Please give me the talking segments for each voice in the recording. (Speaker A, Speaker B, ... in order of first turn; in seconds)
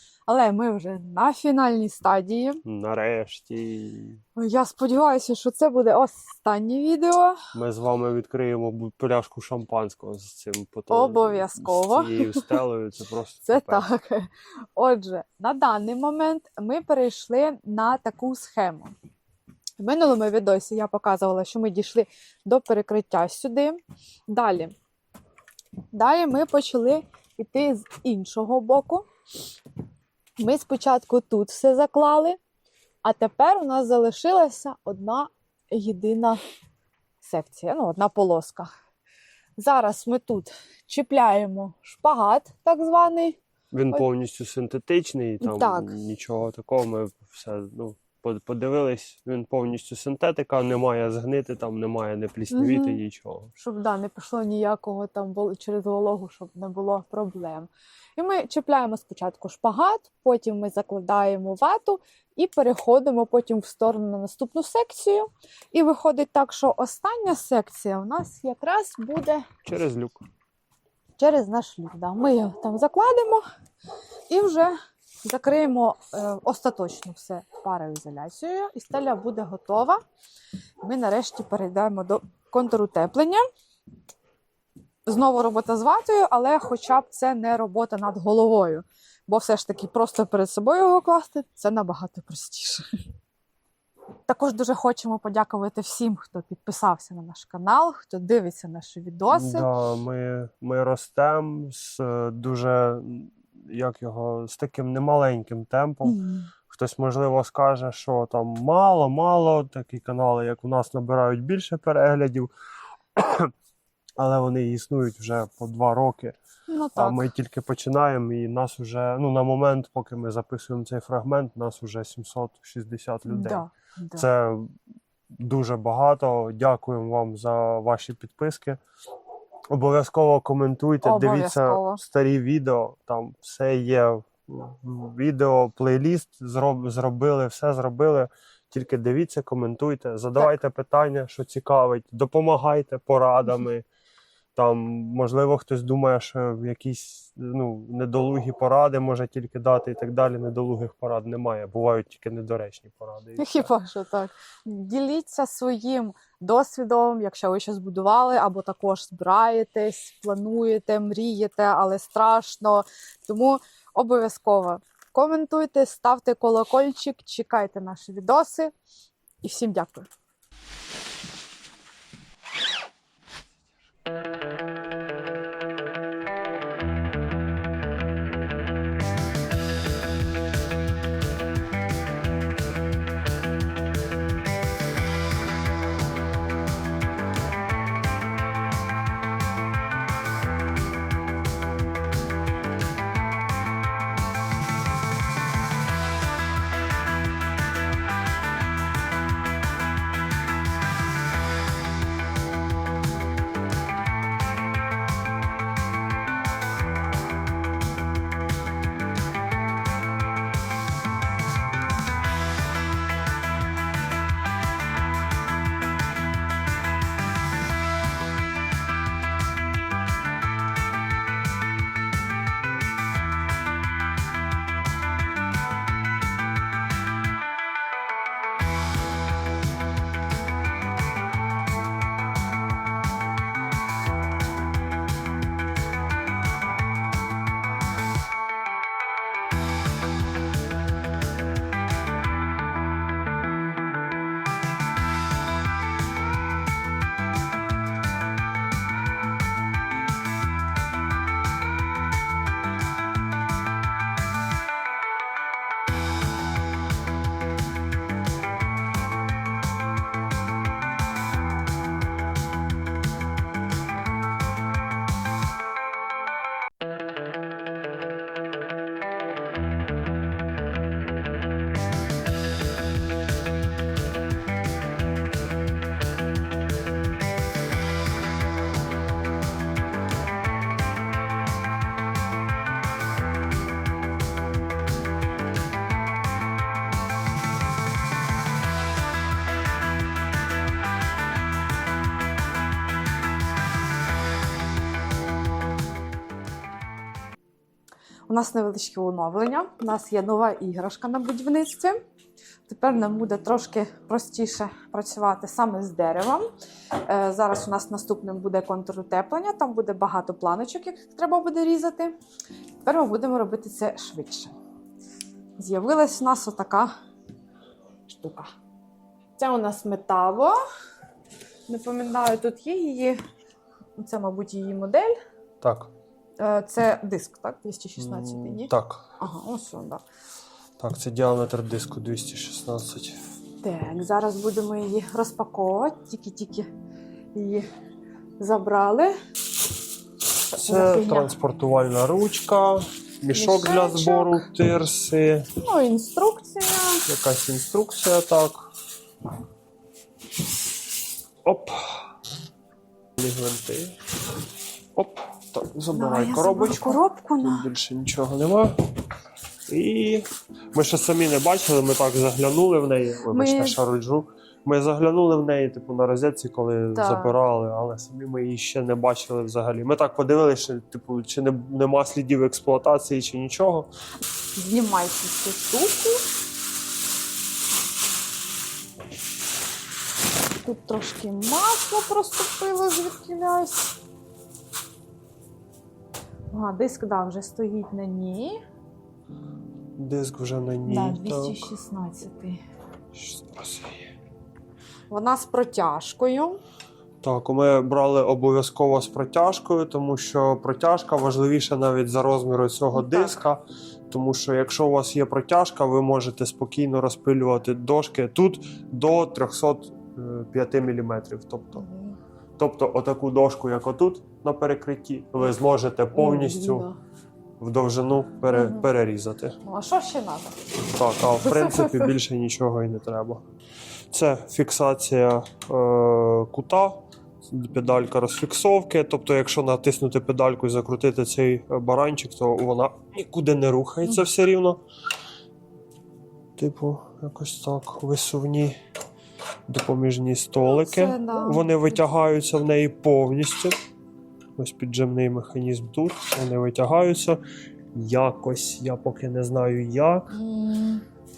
Speaker A: 0.3-2.6, 4.4-7.4, 10.9-12.5, 13.5-18.9, 19.8-24.7, 25.9-29.1, 30.4-32.4, 33.0-36.4, 37.2-38.7, 39.6-43.4, 45.4-45.9, 52.5-53.0, 53.6-69.4, 71.2-73.4, 74.3-80.0, 80.8-83.4, 85.1-92.8, 94.3-99.7, 106.0-106.5, 116.7-117.3, 123.3-124.3, 131.0-132.0, 153.4-168.7, 169.4-170.1, 298.3-302.0, 302.7-306.5, 307.0-312.1, 312.8-314.5, 315.6-316.9, 318.1-318.5, 319.4-320.6, 321.7-323.2, 324.0-325.1, 326.4-330.0, 333.6-336.7, 337.4-337.7, 338.4-339.1, 340.5-341.3, 343.3-344.4, 345.6-347.1, 355.9-357.7, 363.3-363.8, 366.9-367.3, 374.6-376.2, 380.6-383.9, 386.5-388.6, 390.9-392.6, 395.1-396.6, 402.9-403.4, 411.8-412.2, 416.1-417.0, 418.5-418.9, 419.6-420.6, 421.4-422.2, 440.6-442.1, 450.3-451.0
Speaker B: 2.7-4.2, 7.5-13.9, 43.7-53.5, 69.6-70.2, 99.3-112.5, 113.2-113.5, 114.2-116.4, 117.0-124.7, 125.3-128.8, 129.7-143.8, 144.6-153.7, 325.6-325.9, 328.0-329.1, 330.8-333.2, 340.5-345.5, 347.1-348.7, 351.4-352.1, 353.2-354.0, 354.9-358.8, 359.7-373.9, 390.0-391.7, 393.1-394.1, 397.2-411.9, 412.6-416.9, 417.6-419.6, 420.8-423.4, 424.1-434.8, 436.6-438.8, 439.7-443.8, 444.6-447.4, 447.9-450.3